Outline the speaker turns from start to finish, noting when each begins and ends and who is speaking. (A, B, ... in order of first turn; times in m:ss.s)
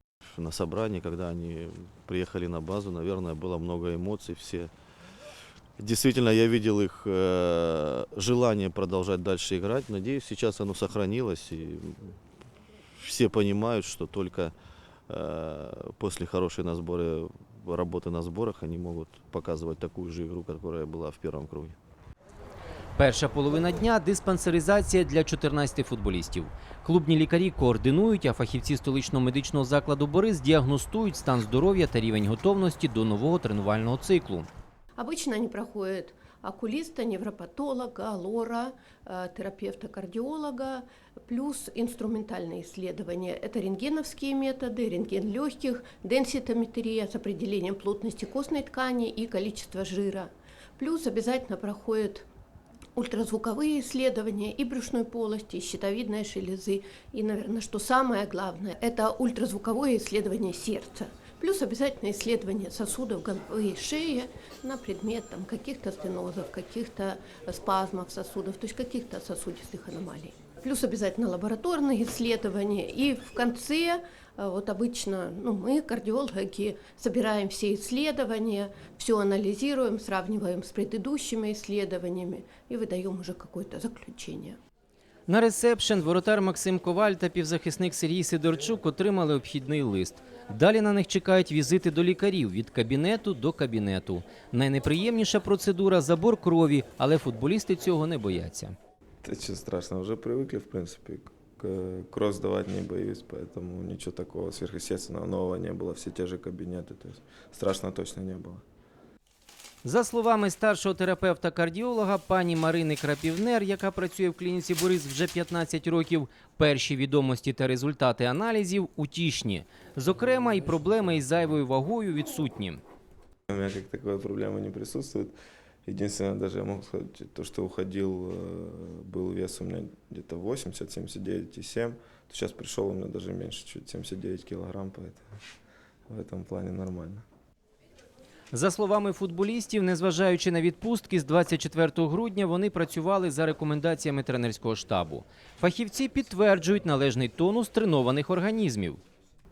0:00.2-0:04.7 A
0:05.8-0:12.2 A
0:12.9-0:14.6 A
0:15.1-0:21.8 A
0:23.0-0:34.5 B
0:35.0-0:52.2 C
0:53.0-1:24.6 C
1:25.3-1:38.7 B
1:39.2-1:48.6 D
1:49.8-2:02.8 B
2:03.5-2:05.3 D
2:05.8-2:15.2 D
2:16.1-2:17.2 D
2:18.5-2:29.0 B